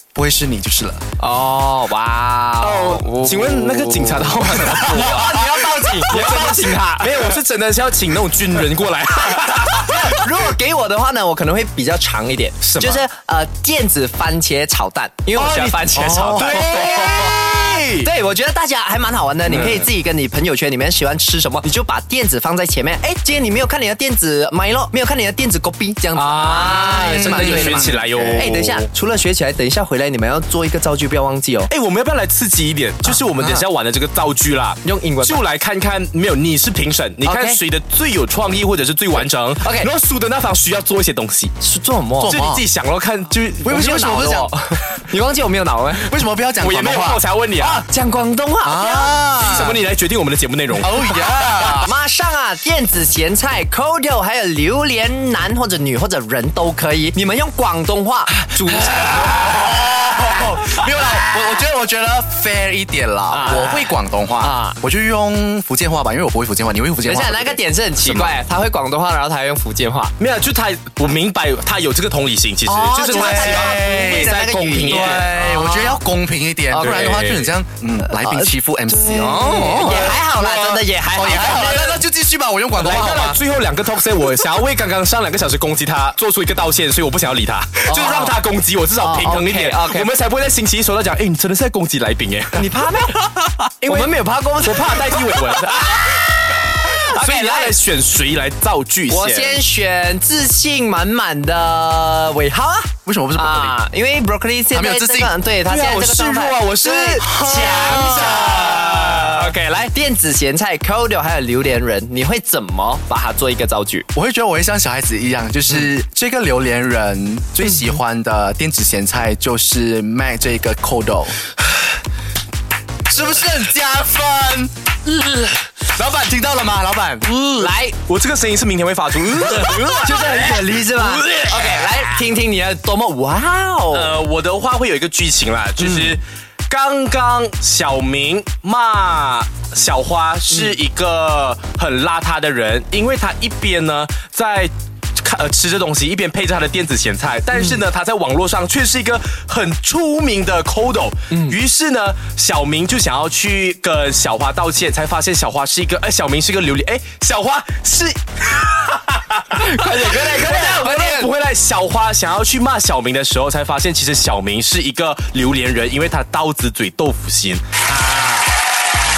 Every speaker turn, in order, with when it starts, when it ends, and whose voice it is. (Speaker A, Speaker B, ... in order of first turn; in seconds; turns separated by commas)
Speaker A: 0.1-1.0, Speaker B: 1.2-7.3, Speaker C: 2.6-10.2, Speaker B: 9.5-17.4, Speaker C: 12.6-13.0, Speaker C: 15.3-18.1, Speaker A: 15.9-17.3, Speaker B: 18.0-31.7, Speaker C: 19.4-19.9, Speaker C: 26.1-28.9, Speaker A: 26.6-28.5, Speaker C: 31.7-41.5, Speaker B: 33.0-33.6, Speaker B: 34.8-35.4, Speaker B: 37.2-37.6, Speaker B: 39.6-39.9, Speaker B: 41.6-42.3, Speaker A: 42.2-42.6, Speaker C: 42.2-44.5, Speaker A: 43.6-44.5, Speaker B: 44.2-46.1, Speaker A: 45.9-47.2, Speaker C: 46.6-47.8, Speaker B: 47.6-49.1, Speaker A: 48.6-49.8, Speaker C: 49.4-51.1, Speaker A: 50.7-51.9, Speaker B: 51.5-59.4, Speaker A: 58.8-68.4, Speaker B: 63.3-64.8, Speaker B: 67.0-70.1, Speaker C: 70.2-75.4, Speaker B: 72.7-76.0, Speaker A: 72.8-83.4, Speaker B: 76.7-77.3, Speaker C: 76.8-77.5, Speaker B: 78.0-82.0, Speaker C: 79.6-79.9, Speaker C: 82.8-92.6, Speaker B: 87.9-88.4, Speaker B: 89.0-90.1, Speaker B: 92.5-97.8, Speaker C: 93.8-99.6, Speaker B: 99.1-114.0, Speaker A: 103.0-103.8, Speaker A: 104.7-105.3, Speaker C: 105.6-109.6, Speaker A: 107.0-109.2, Speaker A: 114.1-121.4, Speaker A: 123.1-124.7, Speaker A: 125.8-127.5, Speaker B: 127.5-128.0, Speaker C: 128.1-132.2, Speaker B: 129.4-134.1, Speaker C: 133.9-168.3, Speaker B: 140.5-140.8, Speaker B: 159.5-161.3